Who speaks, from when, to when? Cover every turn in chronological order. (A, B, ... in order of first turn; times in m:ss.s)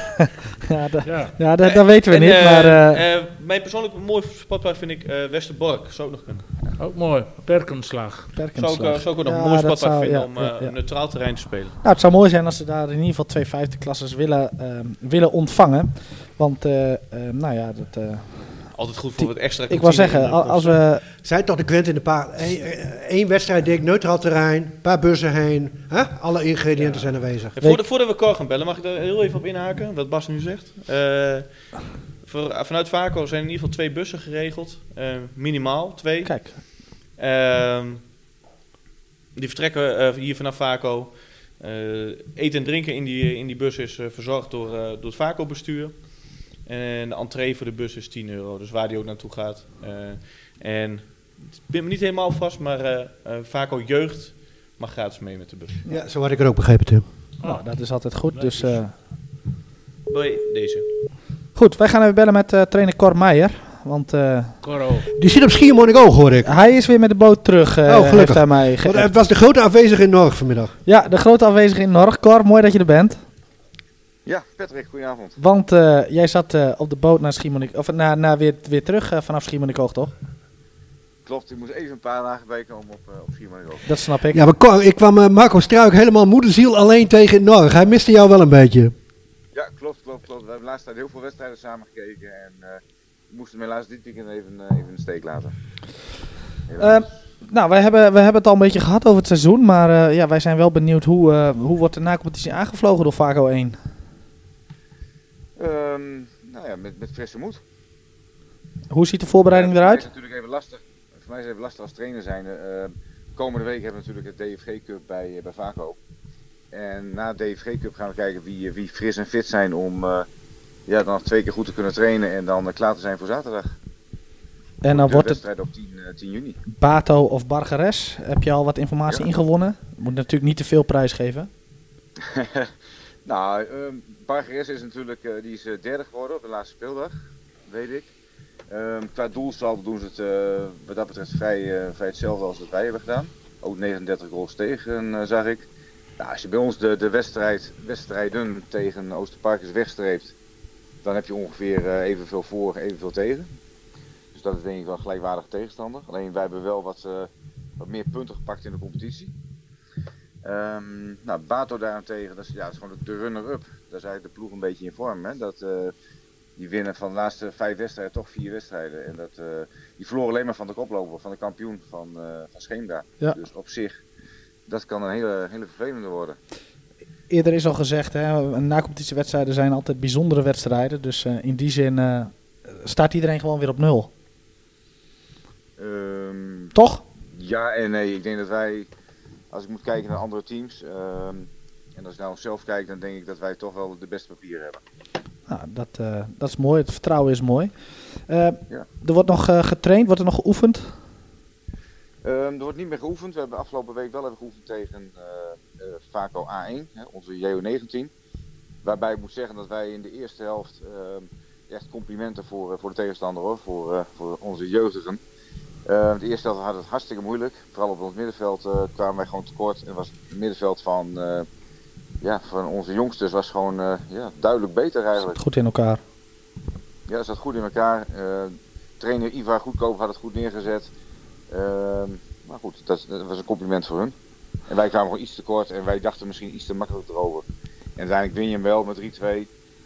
0:00.7-0:03.0 A
0:01.0-0:01.3 B
0:01.6-0:06.5 C
0:06.8-0:08.4 B
0:08.4-0:10.7 A
0:08.6-0:11.8 C
0:11.8-0:21.0 A
0:18.7-0:20.8 C
0:21.1-0:27.6 D
0:26.8-0:27.1 B
0:27.5-0:38.0 C
0:36.2-0:36.6 A
0:39.3-0:55.8 C
0:55.9-0:57.0 D
0:57.4-0:58.8 B
0:57.4-0:58.9 A
1:00.1-1:00.9 C
1:01.5-1:04.6 A
1:04.6-1:05.1 B
1:05.2-1:06.6 D
1:06.4-1:09.1 A
1:07.8-1:10.8 D
1:10.8-1:13.2 A
1:14.2-1:15.4 E
1:15.4-1:20.1 A
1:21.2-1:23.8 E
1:23.8-1:24.4 A
1:24.3-1:28.9 D
1:29.5-1:35.5 E
1:36.7-1:37.1 E
1:36.8-1:43.9 A
1:45.6-1:47.6 E
1:48.9-1:50.0 A
1:49.5-1:56.0 E
1:56.7-2:00.2 E
2:00.9-2:03.8 E
2:04.8-2:05.4 A
2:04.9-2:06.6 E
2:06.7-2:11.5 A
2:12.3-2:12.7 E
2:13.2-2:17.1 E
2:17.6-2:18.1 E
2:18.7-2:25.7 E
2:26.2-2:30.3 E
2:31.0-2:33.5 E
2:34.3-2:39.3 E
2:40.4-2:45.9 E
2:46.6-2:54.0 E
2:54.7-2:56.4 E
2:57.3-3:04.1 A
3:05.8-3:06.7 E
3:06.7-3:07.0 A
3:07.3-3:08.9 E
3:09.5-3:14.8 E
3:15.5-3:21.0 A
3:22.2-3:28.1 E
3:28.8-3:35.2 E
3:35.8-3:41.5 E
3:42.2-3:45.4 E
3:45.2-3:46.0 A
3:47.1-3:50.9 E
3:51.5-3:54.1 E
3:54.7-3:57.4 E
3:58.0-3:59.5 E